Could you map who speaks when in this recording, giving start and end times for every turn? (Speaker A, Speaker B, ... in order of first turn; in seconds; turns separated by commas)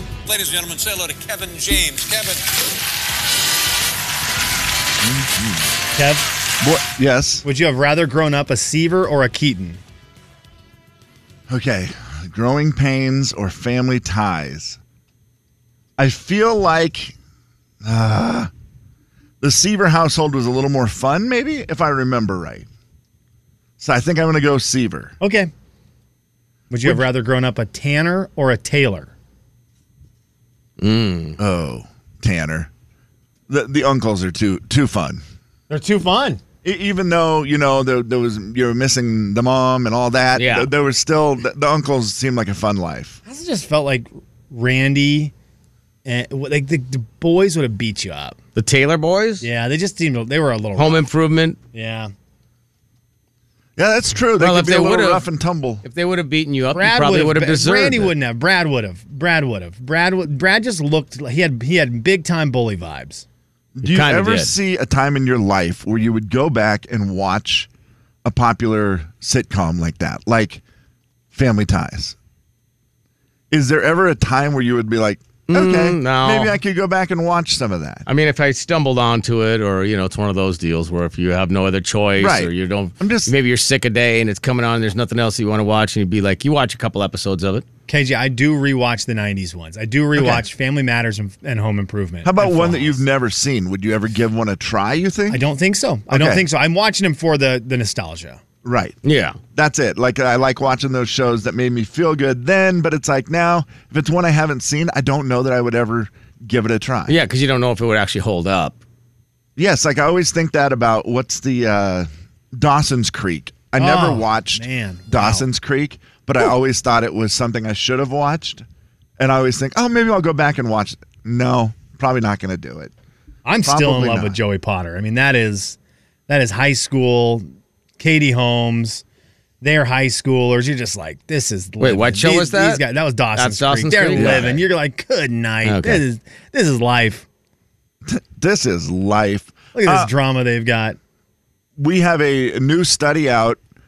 Speaker A: 0.3-2.4, Speaker B: 5.0-5.7, Speaker C: 6.0-6.2, Speaker B: 6.6-7.4, Speaker C: 7.4-9.8, Speaker B: 11.5-14.8, Speaker B: 16.0-17.1, Speaker B: 17.8-18.5, Speaker B: 19.4-22.7, Speaker B: 23.8-25.1, Speaker C: 25.2-25.5, Speaker C: 26.7-29.1, Speaker D: 30.8-31.4, Speaker B: 31.4-32.7, Speaker B: 33.5-35.2, Speaker C: 35.7-36.4, Speaker B: 36.6-43.2, Speaker D: 40.3-40.7, Speaker C: 43.3-45.3, Speaker C: 46.0-48.4, Speaker D: 48.5-49.4, Speaker C: 49.4-51.0, Speaker D: 50.8-51.6, Speaker C: 51.7-52.1, Speaker B: 53.8-55.8, Speaker D: 54.4-55.2, Speaker D: 55.8-58.1, Speaker C: 56.7-63.2, Speaker B: 63.7-67.7, Speaker D: 63.8-64.5, Speaker B: 68.2-70.6, Speaker B: 71.3-72.2, Speaker B: 73.5-78.0, Speaker D: 75.5-76.6, Speaker D: 78.1-87.6, Speaker B: 82.2-83.3, Speaker C: 87.9-93.0, Speaker B: 90.2-90.4, Speaker B: 92.2-95.4, Speaker C: 95.3-98.4, Speaker B: 96.1-96.5, Speaker B: 98.6-99.0, Speaker D: 99.0-99.4, Speaker B: 99.5-107.2, Speaker D: 107.1-108.8, Speaker B: 109.6-118.6, Speaker C: 113.8-115.5, Speaker B: 119.2-122.9, Speaker C: 123.4-125.8, Speaker B: 123.6-124.4, Speaker C: 126.3-127.4, Speaker C: 128.0-129.0, Speaker C: 129.6-137.2, Speaker D: 131.8-132.8, Speaker D: 133.3-134.7, Speaker D: 135.6-136.0, Speaker B: 138.0-140.1, Speaker C: 139.7-141.0, Speaker B: 141.8-143.6